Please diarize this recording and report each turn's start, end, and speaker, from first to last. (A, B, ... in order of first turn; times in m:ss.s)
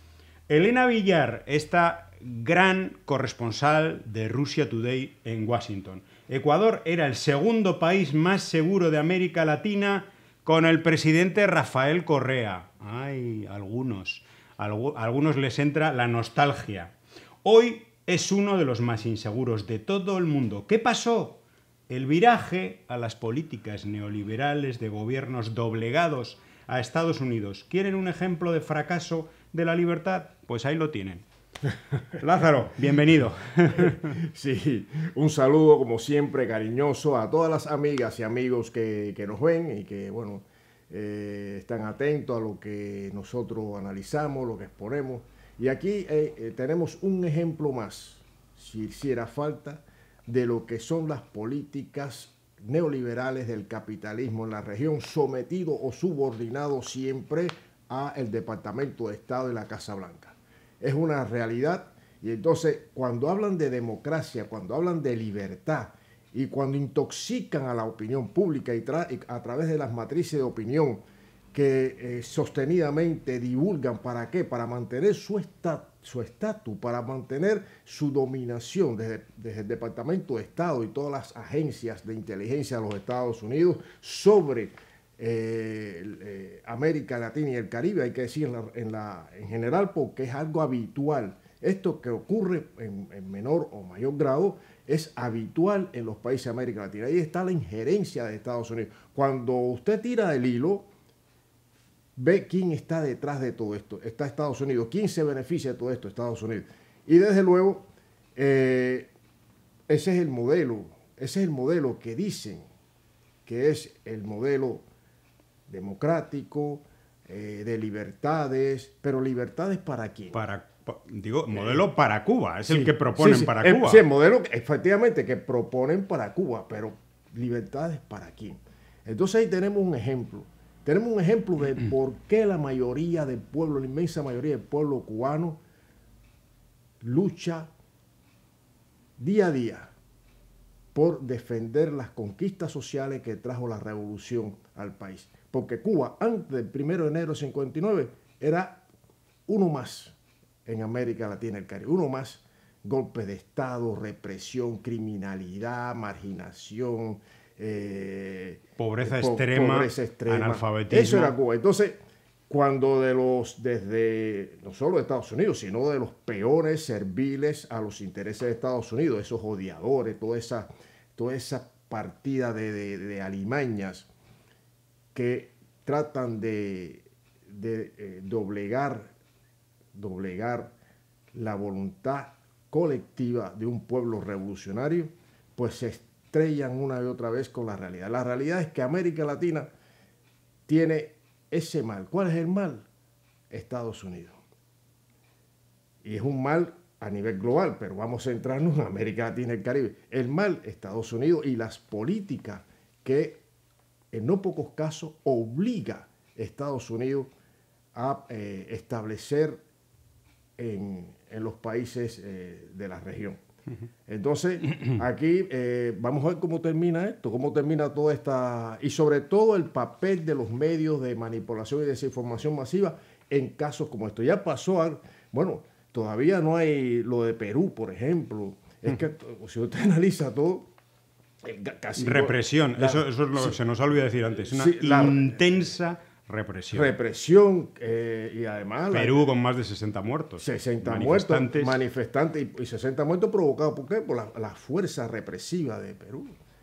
0:00.5-0:31.2 A
0:32.2-0:34.2 A
0:33.8-1:11.0 B
1:11.5-1:40.9 B
1:42.2-1:49.1 B
1:49.9-1:52.6 B
1:53.4-1:54.8 B
1:55.7-2:00.4 B
2:00.3-2:04.0 A
2:01.5-2:01.8 B
2:02.7-2:15.6 B
2:17.0-2:17.7 B
2:19.2-2:19.9 B
2:20.9-2:28.8 B
2:29.5-2:54.1 B
2:38.8-2:41.3 A
2:55.1-2:59.1 B
2:59.9-3:00.7 B
3:01.3-3:09.7 B
3:10.7-3:12.9 B
3:13.5-3:14.4 B
3:16.0-3:23.4 B
3:24.1-3:27.3 B
3:27.9-3:29.6 B
3:30.6-3:33.4 B
3:34.1-3:50.7 B
3:51.4-3:53.6 B
3:52.0-3:56.9 A
3:54.5-3:55.4 B
3:56.7-3:59.3 B
3:58.9-4:01.8 A
4:00.4-4:06.3 B